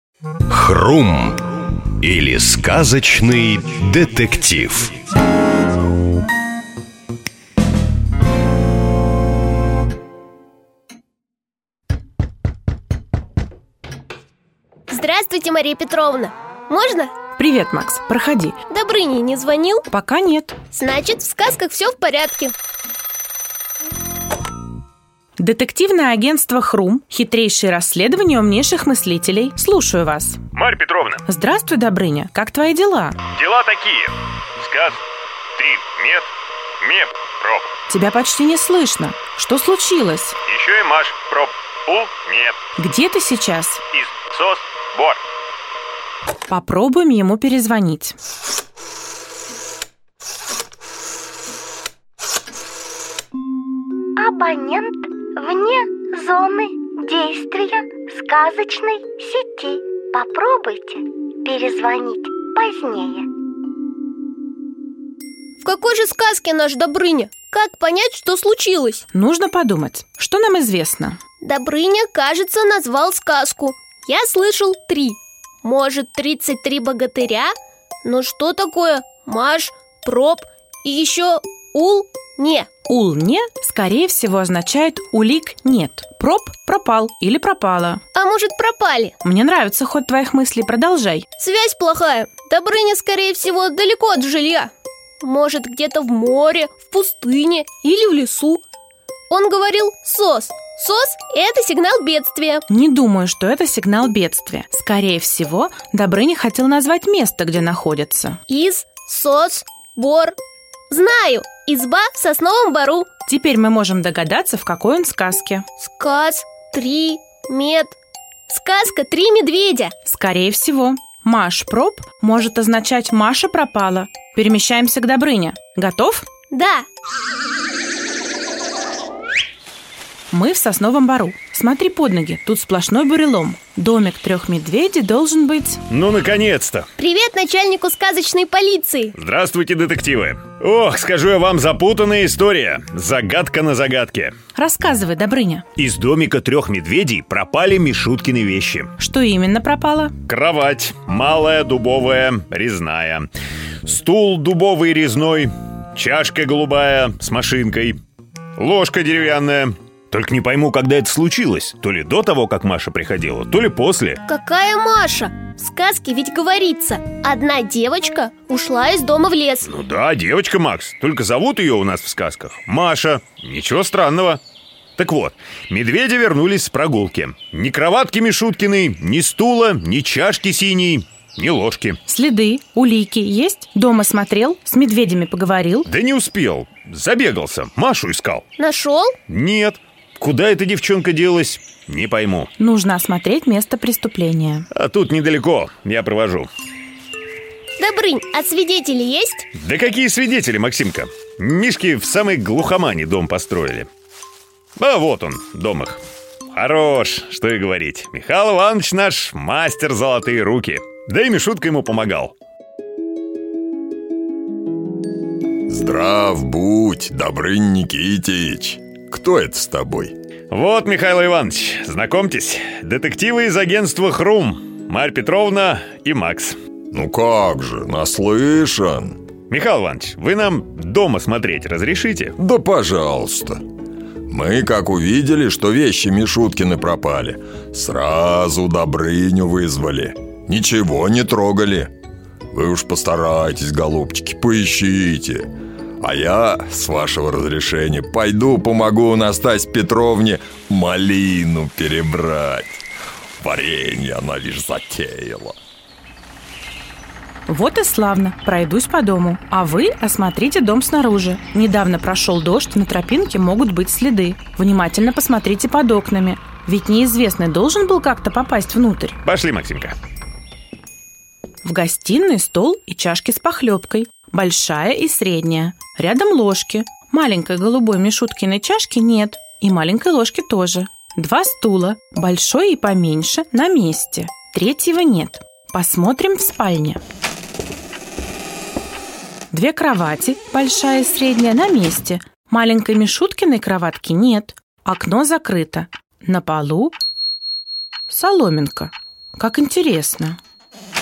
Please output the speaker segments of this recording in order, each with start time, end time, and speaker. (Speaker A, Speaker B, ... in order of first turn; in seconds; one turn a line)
Speaker A: 0.5-5.0
Speaker B: 14.9-17.1
Speaker C: 17.4-18.6
Speaker B: 18.7-19.9
Speaker C: 19.9-20.6
Speaker B: 20.7-22.5
Speaker C: 25.4-30.4
Speaker D: 30.5-31.2
Speaker C: 31.3-33.2
Speaker D: 33.3-35.0
Speaker D: 35.6-36.3
Speaker D: 36.8-37.7
Speaker C: 37.9-40.4
Speaker D: 40.5-42.6
Speaker C: 42.8-43.8
Speaker D: 44.0-45.2
Speaker C: 46.5-48.2
Speaker E: 54.2-63.3
Speaker B: 65.6-69.0
Speaker C: 69.1-71.2
Speaker B: 71.4-77.5
Speaker B: 78.0-82.7
Speaker C: 82.9-88.0
Speaker B: 88.2-89.1
Speaker C: 89.2-91.3
Speaker B: 91.4-98.6
Speaker B: 99.3-102.7
Speaker C: 102.7-108.4
Speaker B: 108.5-110.3
Speaker B: 110.9-113.1
Speaker C: 113.3-115.7
Speaker B: 115.8-118.0
Speaker B: 118.5-119.9
Speaker C: 120.0-126.3
Speaker B: 126.5-126.9
Speaker C: 130.3-135.8
Speaker D: 135.9-136.9
Speaker B: 137.0-139.1
Speaker D: 139.2-144.3
Speaker C: 144.6-145.7
Speaker D: 145.8-148.9
Speaker C: 149.0-150.1
Speaker D: 150.3-153.3
Speaker D: 153.8-158.0
Speaker D: 158.6-164.2
Speaker B: 164.3-169.7
Speaker D: 169.6-174.4
Speaker D: 175.0-182.0
Speaker C: 182.1-185.9
Speaker D: 185.9-188.4
Speaker B: 188.6-189.2
Speaker D: 189.3-192.5
Speaker C: 192.6-194.7
Speaker D: 194.7-196.5
Speaker B: 197.8-199.5
Speaker D: 199.6-203.9
Speaker D: 204.8-206.0
Speaker D: 206.5-212.3
Speaker F: 215.7-220.1
Speaker D: 220.5-226.6
Speaker F: 226.9-229.2
Speaker D: 229.5-232.4
Speaker F: 232.4-233.6
Speaker F: 234.3-241.9
Speaker F: 242.5-245.5
Speaker F: 246.0-252.8
Speaker F: 253.4-255.6
Speaker C: 257.5-269.2
Speaker D: 269.2-270.0
Speaker C: 271.6-287.0
Speaker C: 289.5-296.9
Speaker C: 298.1-300.4